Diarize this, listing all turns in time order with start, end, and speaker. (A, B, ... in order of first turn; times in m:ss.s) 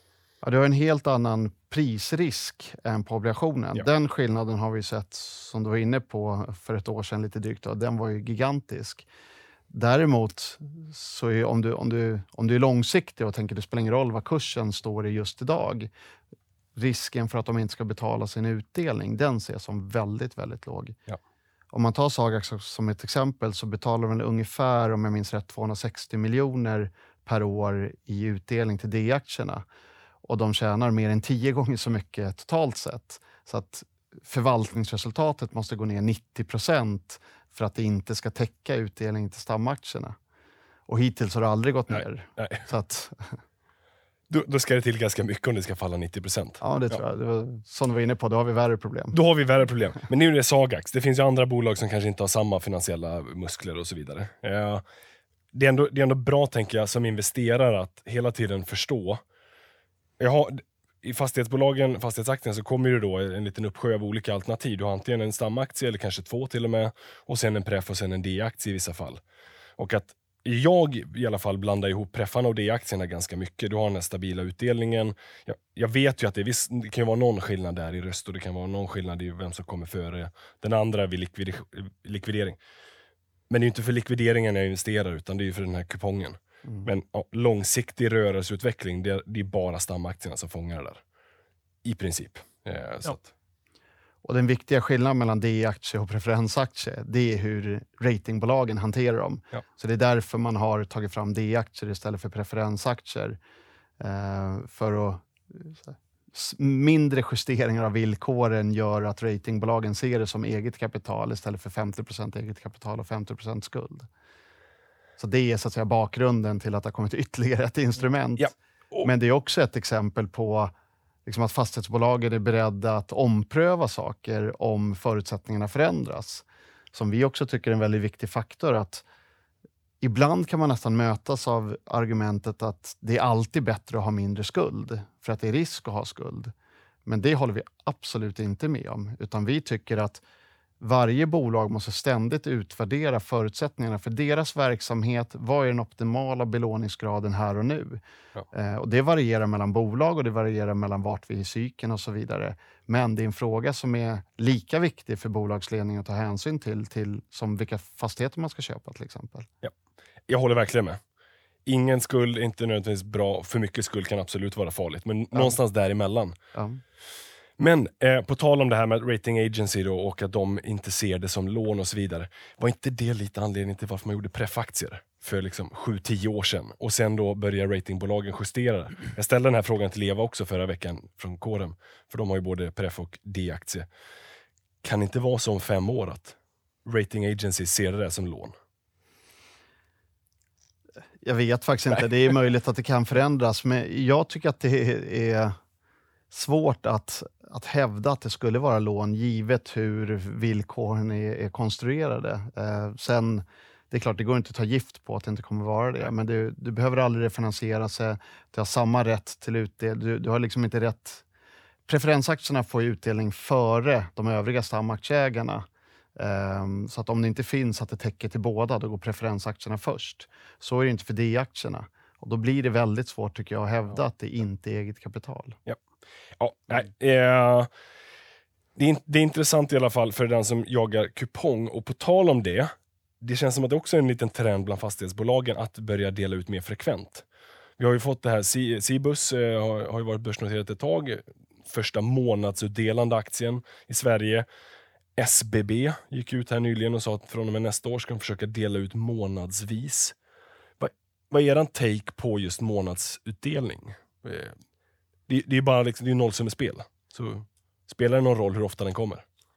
0:00.4-0:09.0 A
0:09.7-0:15.9 A
0:16.8-0:21.0 A
0:21.7-0:29.6 A
0:30.2-0:40.2 A
0:40.9-0:43.4 A
0:41.9-0:42.7 B
0:44.3-0:47.0 B
0:46.6-0:49.2 A
0:49.1-0:54.8 B
0:55.5-0:59.2 B
1:00.2-1:09.2 B
1:09.8-1:22.6 B
1:23.5-1:31.0 B
1:31.8-1:33.3 B
1:34.2-1:43.4 A
1:44.0-1:54.1 A
1:55.2-1:58.5 A
1:58.4-1:59.1 B
1:59.0-2:00.7 A
2:01.3-2:09.0 A
2:10.0-2:16.5 A
2:17.1-2:20.2 A
2:20.8-2:39.5 A
2:40.3-2:41.0 B
2:41.7-2:46.4 B
2:45.3-2:45.6 A
2:46.5-2:46.8 A
2:47.6-3:03.9 B
3:04.8-3:08.6 B
3:11.2-3:15.6 A
3:16.3-3:31.2 A
3:31.9-3:45.6 A
3:46.4-3:47.7 B
3:48.8-3:57.2 B
3:57.8-4:04.5 B
4:05.2-4:10.2 B
4:10.8-4:14.6 B
4:15.3-4:19.2 B